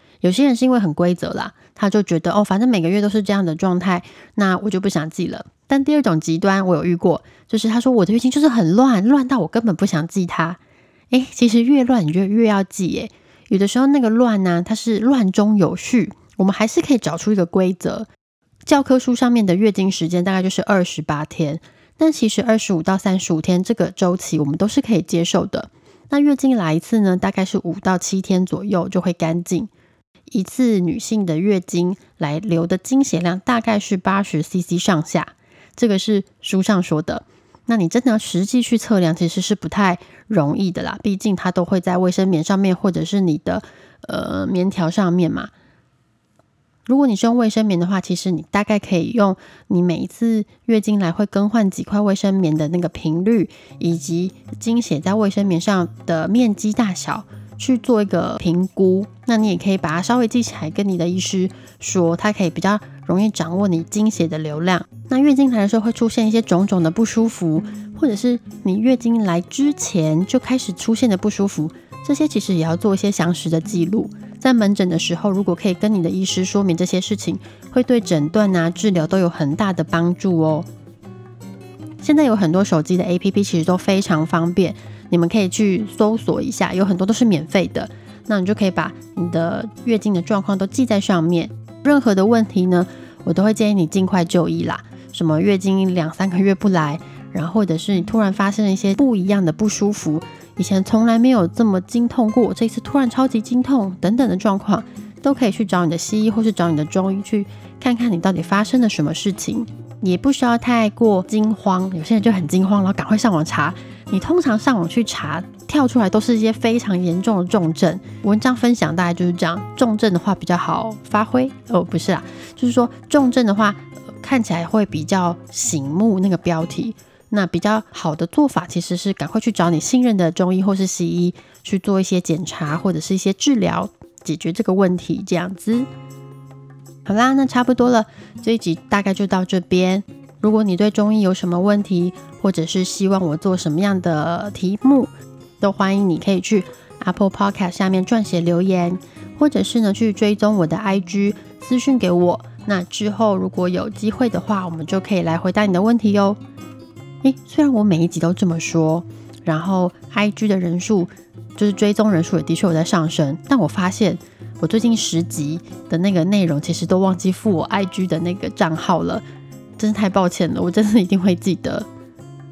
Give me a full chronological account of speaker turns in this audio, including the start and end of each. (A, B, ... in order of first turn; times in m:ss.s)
0:00.2-0:10.6 A
0:11.1-0:18.1 A
0:18.6-0:29.7 A
0:30.3-0:45.5 A
0:46.8-1:20.7 A
1:22.0-2:15.9 A
2:17.0-2:36.4 A
2:37.2-2:49.2 A
2:49.8-2:51.9 A